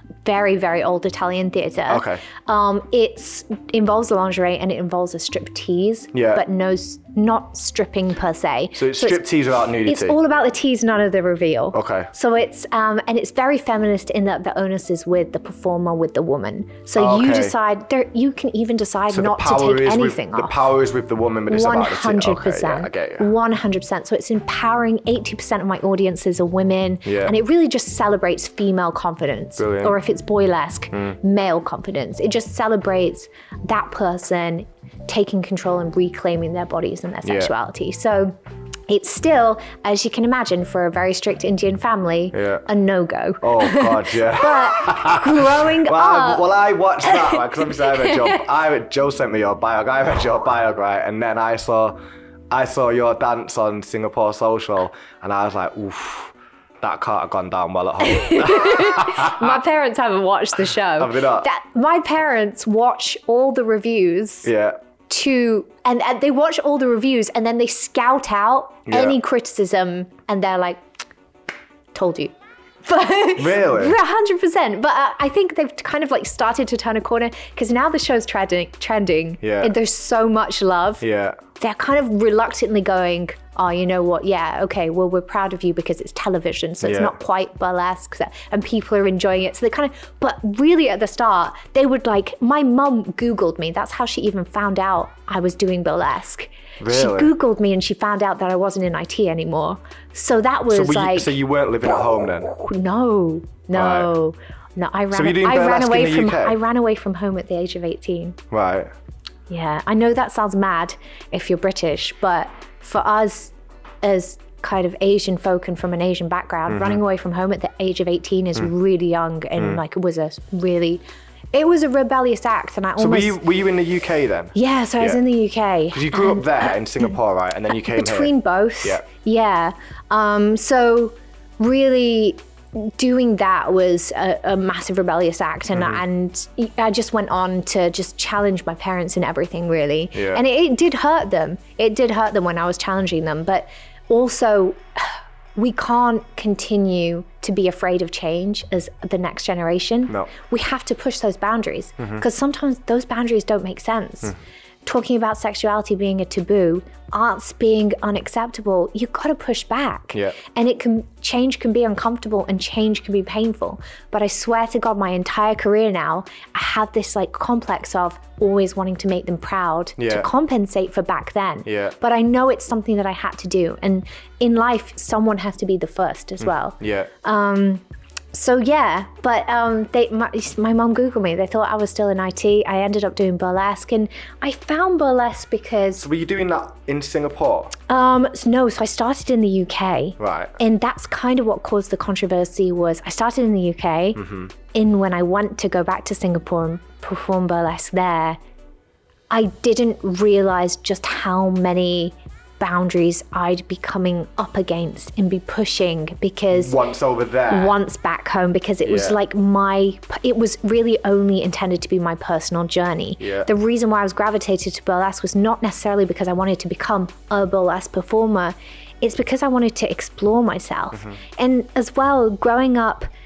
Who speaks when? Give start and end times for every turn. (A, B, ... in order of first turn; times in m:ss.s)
0:00.2-0:09.2 A
0:01.9-0:02.2 B
0:06.1-0:06.4 B
0:08.7-0:10.2 B
0:09.8-0:20.6 A
0:11.7-0:12.1 B
0:17.0-0:17.5 B
0:19.1-0:23.3 B
0:21.5-0:38.3 A
0:27.0-0:27.3 B
0:29.6-0:30.0 B
0:37.2-0:37.5 B
0:38.9-0:46.5 A
0:42.3-0:42.6 B
0:43.4-0:52.0 B
0:47.0-0:48.4 A
0:52.5-0:59.6 B
0:58.0-1:04.5 A
1:01.0-1:01.5 B
1:04.4-1:04.8 B
1:05.1-1:10.8 A
1:08.9-1:09.2 B
1:11.9-1:12.3 A
1:12.8-1:21.0 A
1:13.4-1:14.0 B
1:19.4-1:19.7 B
1:21.0-1:21.4 B
1:21.6-1:41.3 A
1:26.8-1:27.2 B
1:36.8-1:37.3 B
1:40.7-1:42.5 B
1:42.5-1:48.4 A
1:43.7-1:44.1 B
1:45.1-1:46.6 B
1:48.5-1:48.9 B
1:49.5-2:01.0 A
1:56.7-1:57.0 B
2:01.5-2:03.4 A
2:03.0-2:05.2 B
2:04.5-2:06.8 A
2:05.9-2:09.0 B
2:07.7-2:57.8 A
2:15.7-2:16.0 B
2:20.1-2:20.4 B
2:32.0-2:32.2 B
2:50.0-2:50.3 B
2:51.6-2:51.9 B
2:56.8-2:57.1 B
2:58.3-3:06.1 A
3:06.0-3:07.7 B
3:07.9-3:14.2 A
3:10.2-3:10.5 B
3:14.2-3:14.5 B
3:14.7-3:18.4 A
3:19.3-3:26.8 A
3:26.5-3:27.8 B
3:27.5-3:43.1 A
3:28.8-3:29.2 B
3:33.2-3:33.5 B